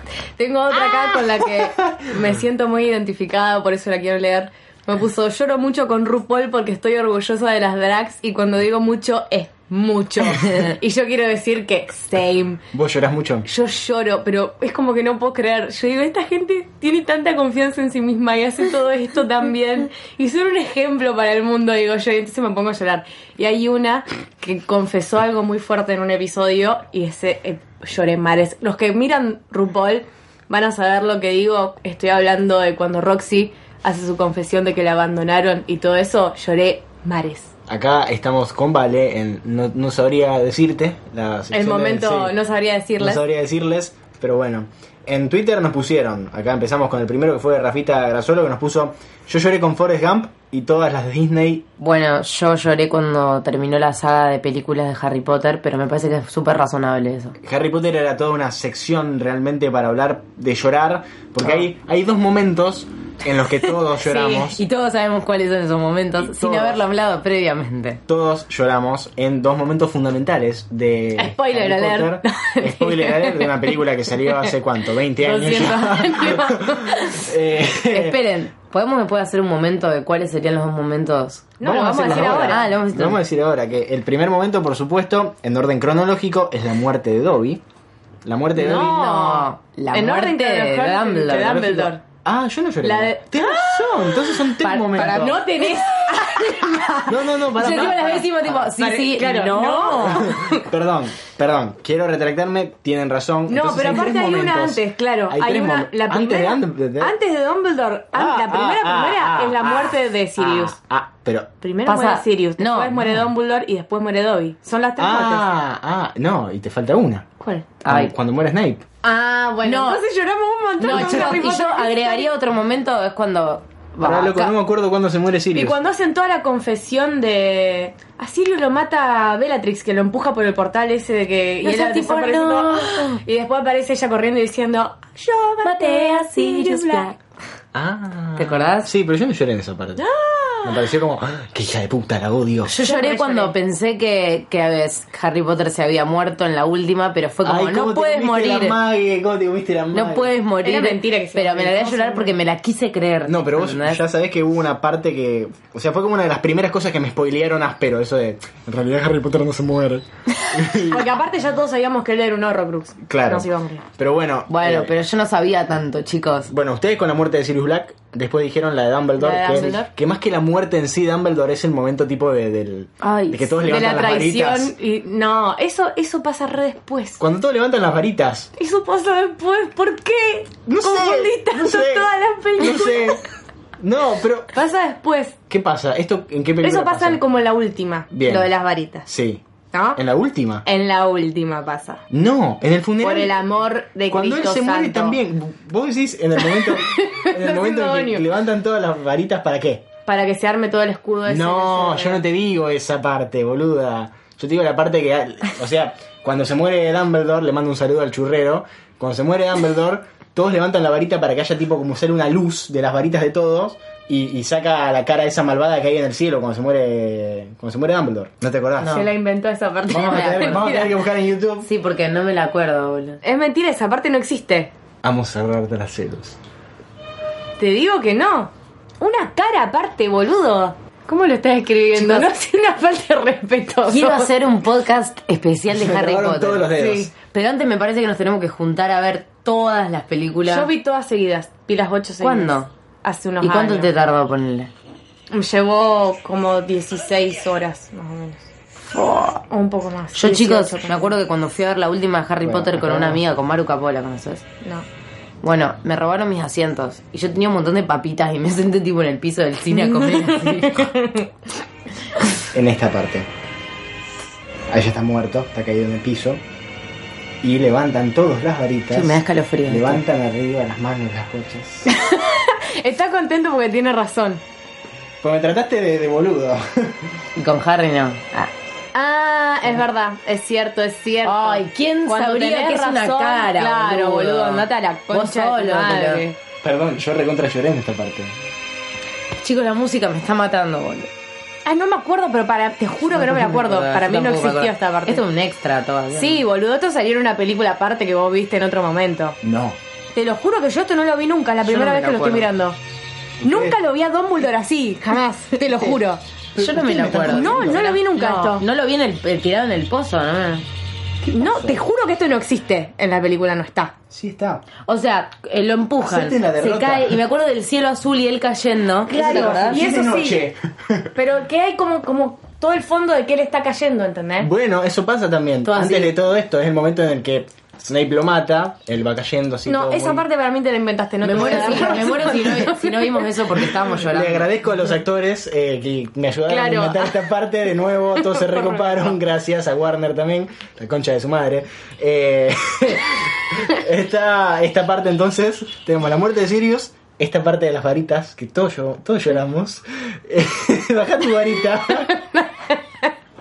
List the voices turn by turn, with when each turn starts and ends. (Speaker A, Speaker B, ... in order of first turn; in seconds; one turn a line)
Speaker A: 0.4-12.7
Speaker B: 12.7-13.5
Speaker A: 13.4-37.5
Speaker B: 37.7-42.3
Speaker A: 41.5-43.2
Speaker B: 43.0-51.7
Speaker C: 51.8-57.4
Speaker B: 57.4-64.6
Speaker A: 64.0-64.4
Speaker C: 64.3-68.0
Speaker B: 66.2-66.8
Speaker B: 68.1-78.2
Speaker A: 71.2-73.7
Speaker A: 75.2-77.3
Speaker C: 77.8-83.2
Speaker A: 81.6-82.7
Speaker B: 81.6-87.6
Speaker B: 88.2-89.0
Speaker C: 88.6-91.9
Speaker A: 88.6-92.0
Speaker B: 92.2-95.4
Speaker A: 92.8-100.7
Speaker C: 94.6-100.3
Speaker B: 97.1-98.3
Speaker B: 100.1-107.1
Speaker A: 103.5-110.8
Speaker B: 108.1-111.5
Speaker A: 111.6-115.5
Speaker C: 111.9-113.0
Speaker B: 113.0-113.3
Speaker B: 115.0-117.3
Speaker A: 117.4-117.7
Speaker C: 117.8-118.1
Speaker B: 117.8-118.8
Speaker C: 119.0-120.0
Speaker A: 119.6-122.3
Speaker C: 120.8-124.5
Speaker B: 121.0-121.3
Speaker B: 124.0-125.8
Speaker A: 125.5-137.1
Speaker C: 131.6-133.2
Speaker C: 135.6-137.2
Speaker B: 137.7-140.0
Speaker C: 138.4-138.9
Speaker A: 140.0-140.9
Speaker B: 140.6-142.7
Speaker C: 142.7-148.8
Speaker A: 142.8-143.6
Speaker B: 147.4-150.3
Speaker C: 149.9-154.0
Speaker A: 150.6-152.4
Speaker B: 153.2-161.1
Speaker A: 160.8-163.8
Speaker B: 163.1-164.9
Speaker C: 164.5-166.5
Speaker B: 166.5-174.7
Speaker C: 169.2-169.9
Speaker A: 169.2-169.9
Speaker C: 173.0-173.7
Speaker A: 173.6-177.2
Speaker B: 177.2-178.5
Speaker A: 178.6-183.2
Speaker B: 180.7-183.2
Speaker B: 183.8-184.5
Speaker A: 184.5-185.4
Speaker B: 185.5-187.2
Speaker A: 186.6-189.1
Speaker B: 188.1-188.5
Speaker B: 189.1-189.4
Speaker A: 189.7-190.0
Speaker B: 190.0-190.7
Speaker A: 190.7-192.0
Speaker B: 192.1-193.4
Speaker A: 193.0-195.2
Speaker B: 194.1-199.9
Speaker A: 196.5-198.2
Speaker A: 200.1-202.2
Speaker B: 201.3-219.0
Speaker C: 218.8-219.1
Speaker A: 218.9-220.9
Speaker B: 219.9-221.7
Speaker C: 219.9-220.7
Speaker C: 221.6-223.2
Speaker A: 223.2-224.7
Speaker B: 225.0-226.4
Speaker A: 227.6-234.3
Speaker C: 231.9-232.3
Speaker C: 233.9-236.7
Speaker B: 235.7-237.1
Speaker A: 236.8-237.1
Speaker C: 237.3-240.7
Speaker A: 240.5-243.9
Speaker C: 242.2-242.7
Speaker C: 243.4-244.7
Speaker A: 245.3-248.5
Speaker C: 248.9-249.4
Speaker A: 249.5-251.2
Speaker C: 250.2-254.4
Speaker B: 252.4-253.2
Speaker C: 255.4-260.9
Speaker A: 259.7-261.3
Speaker B: 262.5-263.3
Speaker B: 264.7-266.4
Speaker B: 267.4-271.9
Speaker C: 268.9-270.0
Speaker A: 271.9-274.4
Speaker B: 275.2-277.0
Speaker C: 277.4-278.5
Speaker A: 278.9-286.4
Speaker C: 281.2-286.3
Speaker B: 286.6-288.4
Speaker C: 289.4-291.1
Speaker A: 291.7-295.2
Speaker C: 293.1-296.4
Speaker A: 296.1-299.4
Speaker B: 299.4-299.8
Speaker A: 300.1-302.8
Speaker C: 301.6-302.5
Speaker B: 303.4-303.8
Speaker A: 303.4-306.2
Speaker B: 306.6-307.9
Speaker C: 306.6-310.7
Speaker A: 307.2-308.7
Speaker B: 311.2-311.8
Speaker A: 311.3-313.9
Speaker B: 314.1-314.7
Speaker C: 314.9-319.8
Speaker B: 316.0-317.2
Speaker B: 319.1-321.1
Speaker A: 319.2-320.4
Speaker A: 321.2-324.5
Speaker B: 324.4-330.2
Speaker C: 325.6-326.1
Speaker A: 329.7-333.3
Speaker C: 331.2-334.5
Speaker B: 331.3-332.6
Speaker B: 333.6-352.1
Speaker A: 336.5-337.1
Speaker A: 338.2-339.1
Speaker A: 351.9-353.1